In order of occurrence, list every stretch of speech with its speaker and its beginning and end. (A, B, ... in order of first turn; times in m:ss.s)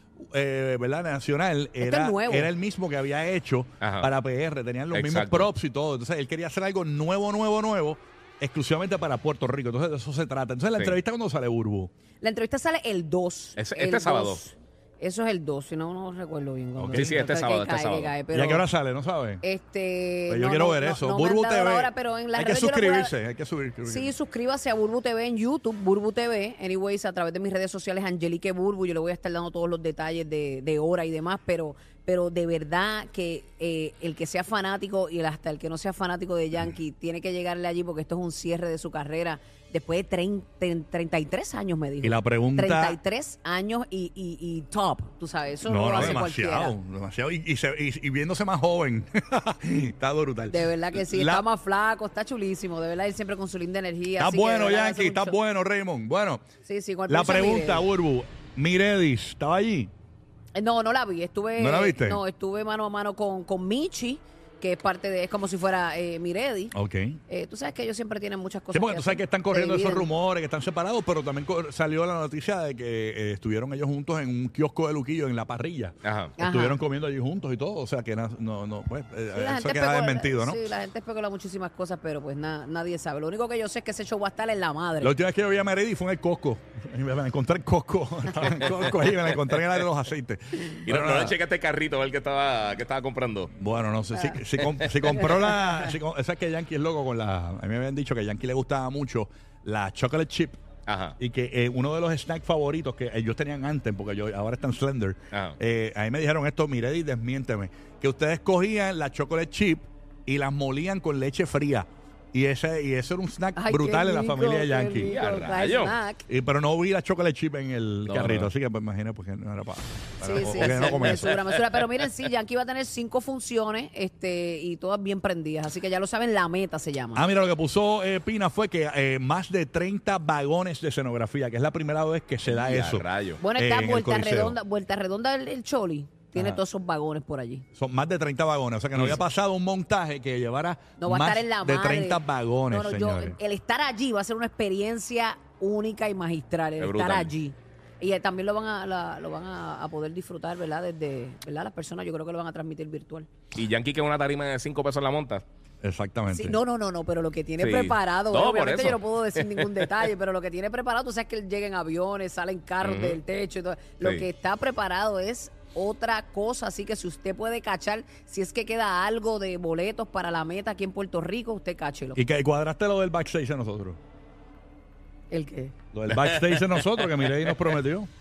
0:00.3-0:11.9 A
0:01.8-0:02.5 B
0:03.8-0:04.1 C
0:04.9-0:05.5 C
0:12.2-0:18.6 B
0:13.6-0:14.4 C
0:16.8-0:17.2 A
0:16.9-0:18.1 C
0:18.3-0:19.4 A
0:19.4-0:23.1 B
0:20.3-0:24.1 A
0:23.8-0:46.8 B
0:42.0-0:43.0 A
0:45.6-0:51.4 A
0:46.0-0:46.2 C
0:50.5-0:55.4 B
0:54.2-0:56.4 A
0:56.6-0:57.9 B
0:57.1-0:59.9 A
1:00.6-1:06.7 B
1:01.6-1:02.2 A
1:06.7-1:07.2 A
1:07.3-1:10.1 B
1:08.7-1:20.6 A
1:16.0-1:16.3 C
1:16.4-1:16.8 B
1:19.3-1:25.1 B
1:25.0-1:31.4 A
1:30.9-1:33.5 C
1:33.5-1:40.6 A
1:34.1-1:34.4 B
1:34.7-1:35.1 C
1:40.9-1:41.2 C
1:41.2-1:55.1 A
1:45.3-1:45.6 C
1:53.6-1:56.2 B
1:55.0-1:56.0 C
1:56.3-2:01.4 A
1:58.1-1:58.5 C
2:00.2-2:07.2 B
2:07.1-2:14.6 A
2:12.4-2:13.4 C
2:13.4-2:17.6 B
2:17.8-2:23.4 A
2:21.0-2:33.3 B
2:26.8-2:27.3 C
2:33.6-2:35.4 C
2:35.8-2:36.6 A
2:36.3-2:52.2 B
2:37.6-2:40.1 C
2:42.8-2:43.2 C
2:52.1-2:54.0 A
2:55.3-2:55.7 B
2:55.9-2:58.1 A
2:56.1-2:57.5 C